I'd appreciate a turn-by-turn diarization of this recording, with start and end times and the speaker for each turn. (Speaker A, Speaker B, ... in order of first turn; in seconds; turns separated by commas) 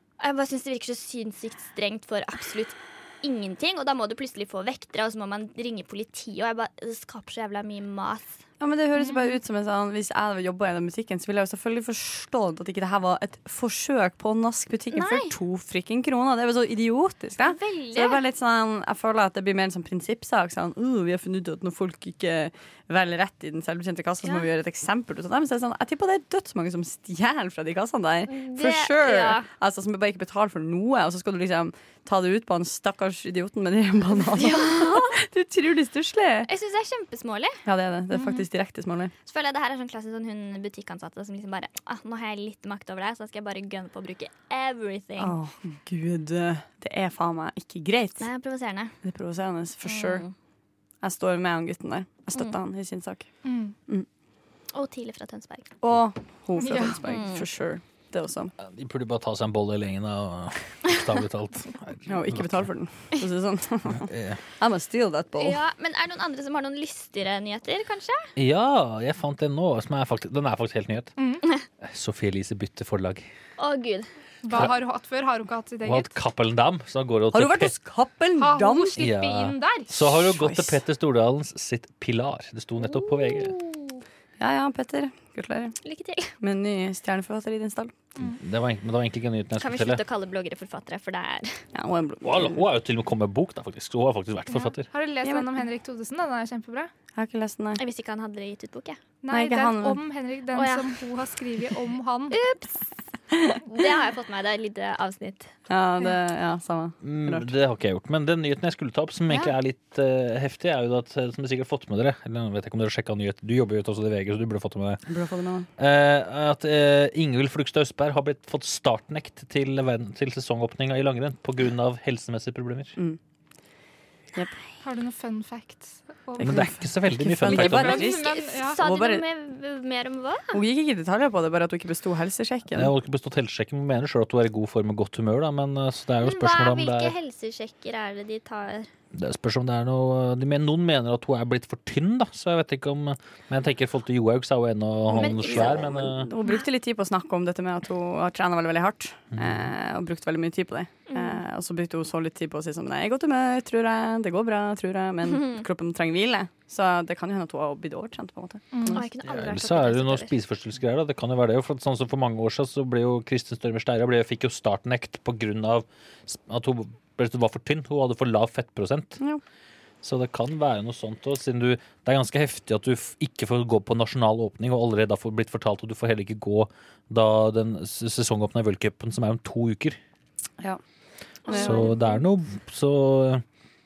Speaker A: 0.2-8.4, Speaker B: 8.6-36.5, Speaker C: 9.0-9.2, Speaker A: 14.9-15.3, Speaker A: 17.4-18.2, Speaker A: 28.3-29.5, Speaker A: 34.4-35.1, Speaker A: 36.5-37.6, Speaker B: 37.6-39.1, Speaker A: 39.2-45.4, Speaker B: 45.2-48.2, Speaker A: 48.2-49.0, Speaker B: 49.0-50.2, Speaker A: 49.8-50.3, Speaker B: 51.0-53.2, Speaker C: 53.4-53.7, Speaker A: 54.7-55.8, Speaker B: 55.8-58.5, Speaker C: 56.6-57.0, Speaker A: 57.0-57.4, Speaker D: 58.6-62.6, Speaker B: 62.1-65.6, Speaker D: 64.0-64.4, Speaker A: 65.4-68.3, Speaker D: 68.4-71.1, Speaker C: 71.2-71.4, Speaker D: 71.8-73.2, Speaker A: 73.6-74.1, Speaker C: 74.4-76.1, Speaker D: 75.8-77.7, Speaker B: 77.3-79.1, Speaker C: 78.4-79.9, Speaker D: 79.0-83.6, Speaker B: 80.2-80.8, Speaker A: 82.8-83.9, Speaker B: 84.4-85.8, Speaker A: 85.8-86.3, Speaker B: 86.4-87.9, Speaker D: 88.2-90.0, Speaker A: 89.6-91.6, Speaker B: 91.7-92.6, Speaker D: 92.2-94.8, Speaker C: 94.5-96.9, Speaker B: 95.2-95.5, Speaker B: 97.1-97.8, Speaker A: 97.8-99.0, Speaker C: 99.2-102.4, Speaker B: 99.3-100.0, Speaker A: 100.5-101.0, Speaker A: 102.3-102.8, Speaker A: 103.6-105.5, Speaker B: 105.7-107.5, Speaker D: 107.0-115.0, Speaker B: 115.1-115.7, Speaker D: 115.8-122.9, Speaker C: 124.8-126.7, Speaker D: 126.4-128.1, Speaker B: 126.4-128.2, Speaker C: 127.5-128.8, Speaker A: 127.7-130.6, Speaker B: 128.8-129.2, Speaker B: 130.5-132.9, Speaker D: 132.7-137.1, Speaker A: 136.2-138.9, Speaker D: 139.1-146.3, Speaker A: 145.1-145.9, Speaker B: 145.1-159.0, Speaker D: 149.3-149.7, Speaker A: 151.1-151.4, Speaker A: 155.3-155.6, Speaker C: 158.7-159.0, Speaker A: 158.9-160.3, Speaker D: 159.3-169.2, Speaker D: 170.0-180.0, Speaker B: 181.5-181.9, Speaker A: 181.5-181.9, Speaker D: 181.5-183.4